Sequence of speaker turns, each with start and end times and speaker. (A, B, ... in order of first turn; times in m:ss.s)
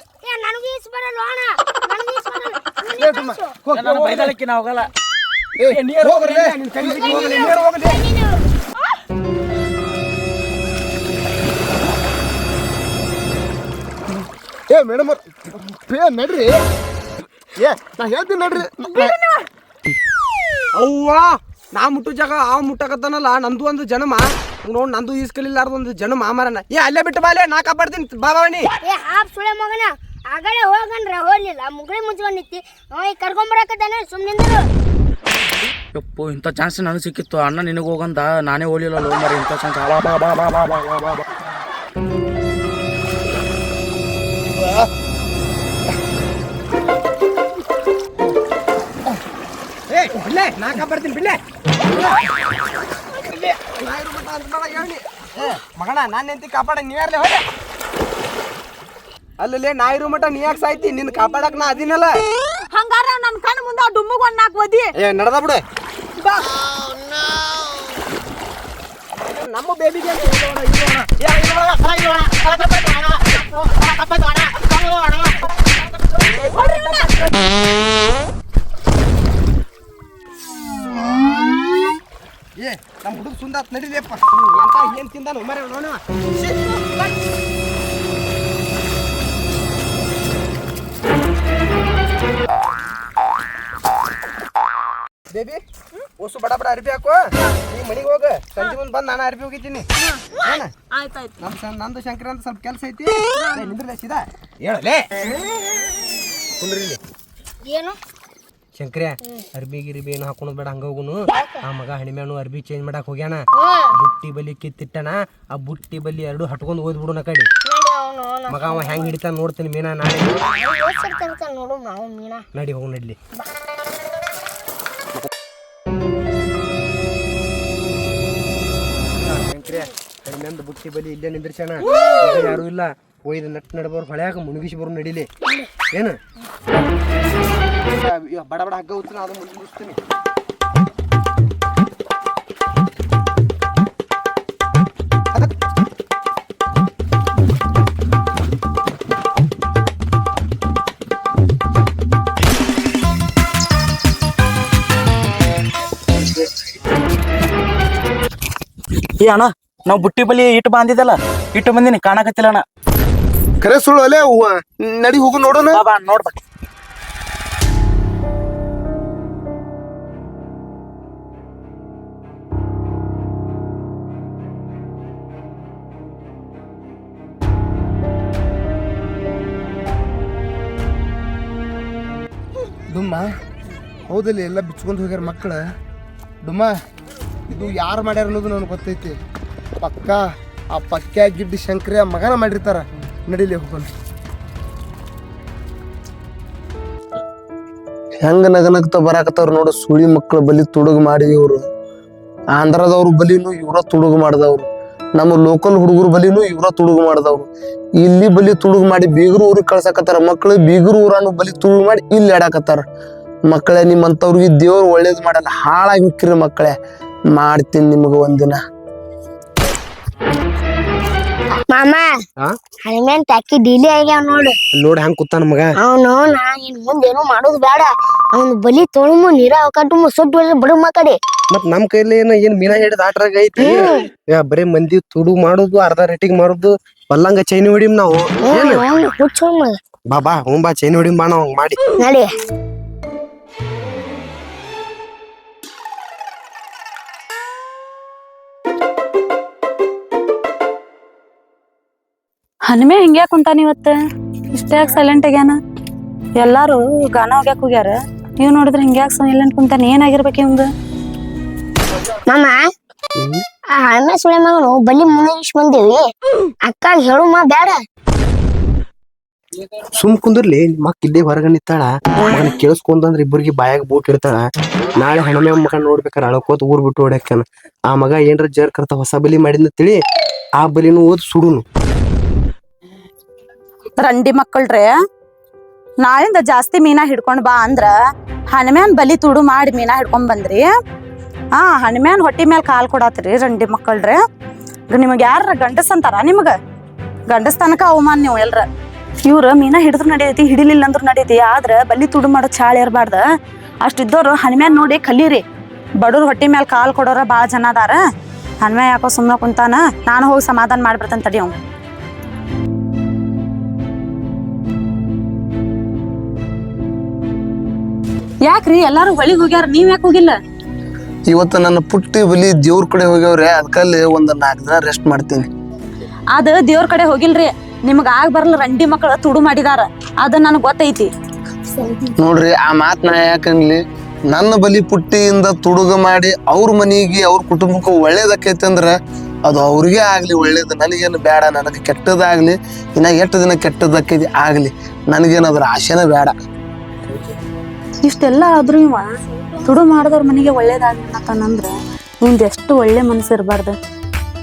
0:00.2-0:03.6 A
0:03.0-0:03.4 B
0:03.6-0:04.3 C
0:03.7-0:04.9 D
0:05.6-0:07.1 B
0:05.7-0:08.0 C
0:07.0-0:08.5 A
0:14.7-0:16.6 B
0:17.6-0:19.2 B
0:18.9-0:19.4 E
0:20.7-0:28.7 C
0:28.8-0:34.6 A
0:35.9-0:40.8 D
0:49.9-0:51.4 C
0:53.1-0:57.4 C
0:59.4-1:02.2 C
1:02.7-1:04.9 E
1:05.0-1:05.6 C
1:06.6-1:07.6 B
1:09.2-1:15.3 C
1:16.2-1:17.4 C
1:22.6-1:26.6 C
1:35.3-1:35.6 C
1:36.2-1:39.8 C
1:40.4-1:40.7 C
1:41.4-1:45.1 C
1:43.4-1:43.7 A
1:46.6-1:47.0 C
1:47.6-1:48.0 A
1:48.7-1:57.5 C
1:51.3-1:51.6 A
1:53.6-1:54.0 A
1:57.7-1:59.1 A
1:58.5-2:00.4 C
2:00.4-2:02.4 A
2:02.5-2:03.2 C
2:09.2-2:15.3 C
2:15.9-2:16.2 C
2:17.9-2:20.0 C
2:39.2-2:42.6 D
2:43.6-2:45.8 B
2:45.6-2:46.3 D
3:02.9-3:03.2 B
3:04.1-3:05.6 B
3:06.4-3:06.7 B
3:07.5-3:09.2 B
3:09.8-3:10.2 B
3:10.7-3:13.9 B
3:18.2-3:21.6 B
3:22.6-3:27.5 B
3:28.0-3:32.8 B
3:33.5-3:36.7 B
3:37.3-3:38.6 B
3:41.7-3:42.0 A
3:42.8-3:44.5 A
3:44.7-3:45.7 C
3:45.8-3:51.2 A
3:51.5-3:58.8 C
3:53.6-3:54.0 A
3:58.4-3:59.7 A
4:00.1-4:01.8 C
4:02.0-4:02.3 A
4:12.7-4:14.0 E
4:14.5-4:15.6 E
4:16.4-4:20.7 E
4:22.3-4:22.6 A
4:23.7-4:26.1 A
4:26.6-4:27.8 A
4:29.7-4:34.4 C
4:35.0-4:40.0 C
4:40.6-4:41.6 C
4:44.0-4:44.9 E
4:46.0-4:47.9 E
4:48.5-4:50.7 E
4:51.6-4:54.2 E
4:54.9-4:56.5 E
4:57.3-4:58.6 E
4:59.2-5:03.2 E
5:03.8-5:05.4 E
5:06.0-5:08.0 E
5:08.6-5:11.5 E
5:18.4-5:20.4 E
5:21.3-5:25.5 B
5:26.3-5:31.1 E
5:31.7-5:32.1 A
5:32.2-5:39.0 B
5:39.5-5:46.3 B
5:48.0-5:49.1 E
5:49.6-5:53.7 E